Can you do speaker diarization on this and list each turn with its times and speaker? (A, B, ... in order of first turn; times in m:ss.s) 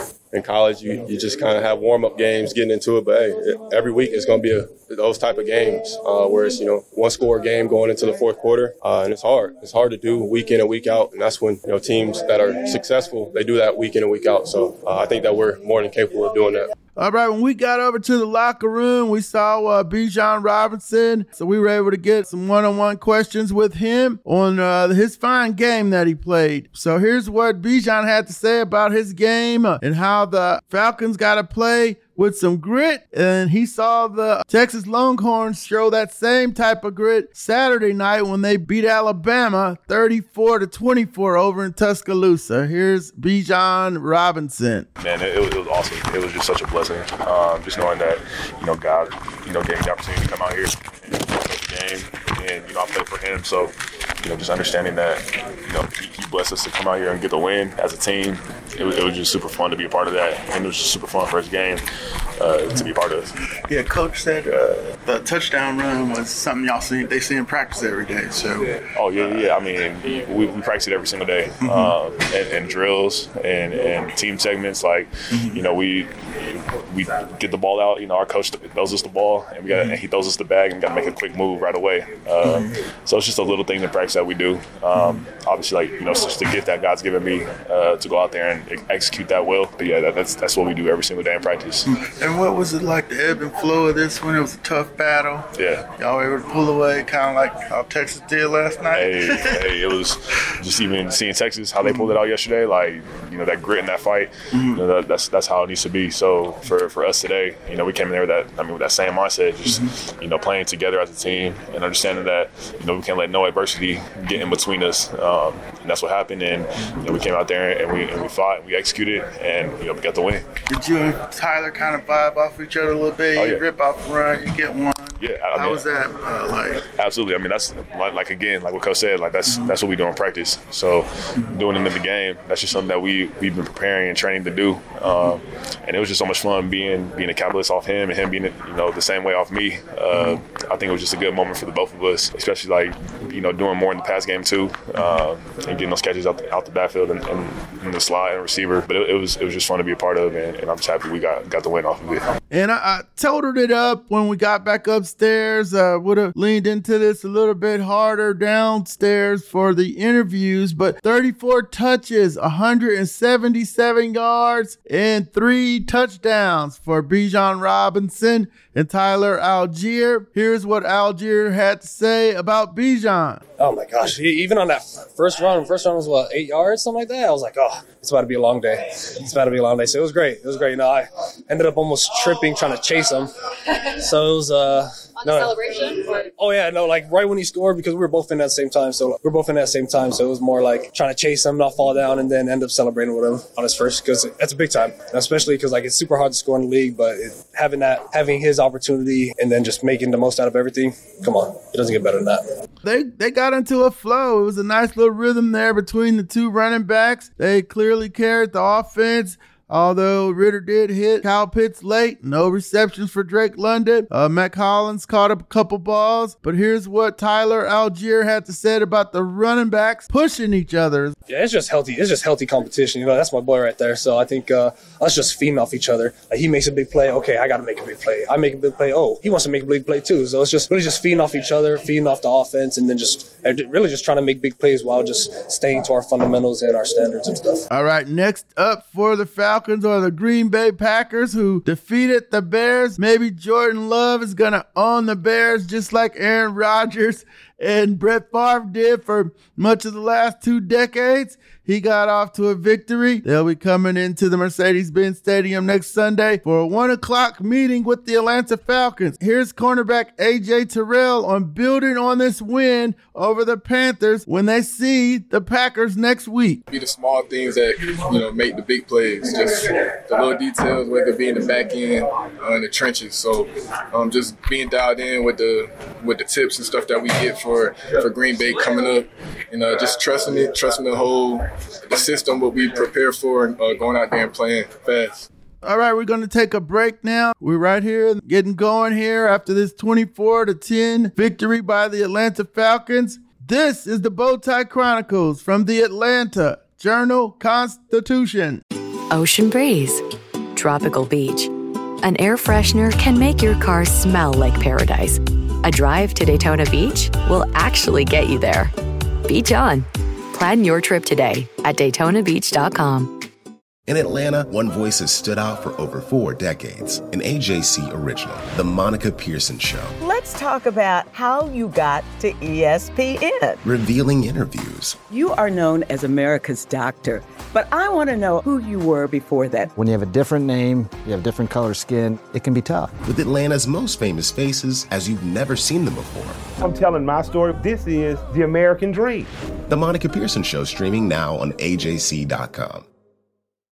0:00.3-0:16.7 A
0:17.0-0:44.9 B
0:45.0-1:01.8 C
1:02.4-1:03.3 C
1:03.7-1:08.6 D
1:09.0-1:31.9 C
1:31.9-1:39.5 D
1:35.6-1:35.9 C
1:39.0-2:00.4 C
2:00.7-2:06.8 D
2:03.4-2:03.6 C
2:05.2-2:05.8 C
2:07.0-2:32.2 C
2:32.5-2:53.4 B
2:53.6-3:03.3 E
3:04.0-3:22.4 E
3:22.8-3:41.2 B
3:41.3-3:57.7 E
3:57.7-4:26.6 B
4:26.7-4:45.3 F
4:45.6-4:58.6 B
4:59.1-5:00.0 G
5:00.5-5:01.5 G
5:02.0-5:08.7 G
5:09.3-5:13.1 G
5:13.9-5:20.0 H
5:20.0-5:23.6 I
5:23.6-5:25.0 H
5:25.1-5:29.7 I
5:29.8-5:32.9 J
5:33.1-5:36.4 H
5:36.6-5:39.3 K
5:39.7-5:42.9 H